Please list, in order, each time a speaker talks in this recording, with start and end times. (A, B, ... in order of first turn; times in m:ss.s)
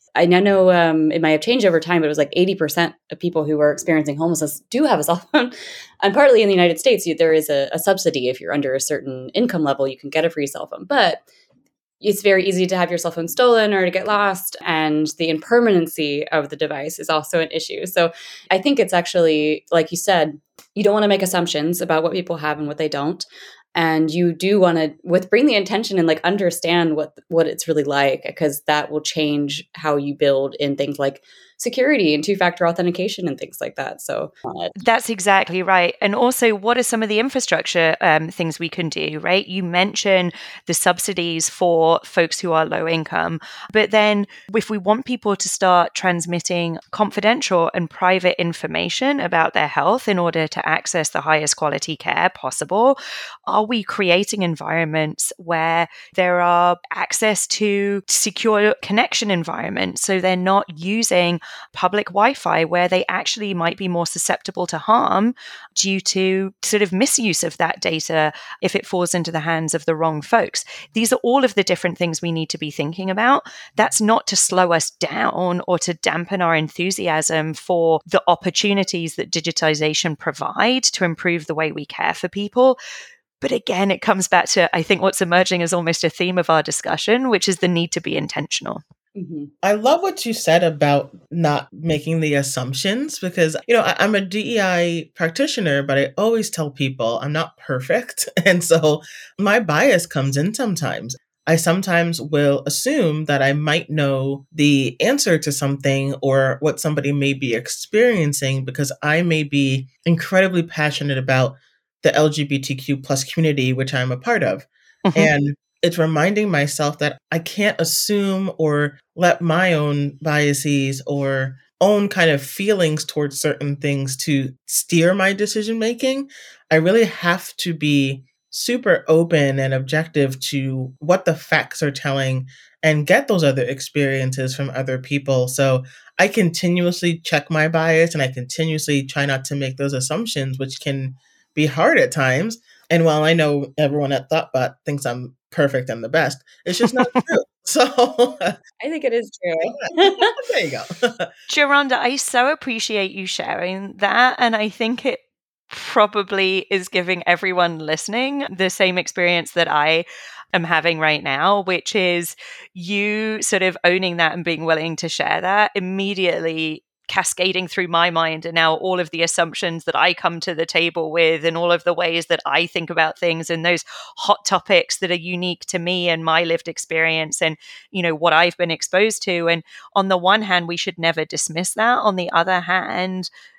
0:00.2-0:11.2 A
0:12.0-0:34.7 A
0:34.8-1:22.8 B
1:23.4-1:28.8 B
1:29.2-1:29.5 A
1:29.6-2:28.6 C
1:55.0-1:55.3 B
2:28.8-2:30.4 A
2:29.9-2:31.3 C
2:31.5-3:03.3 B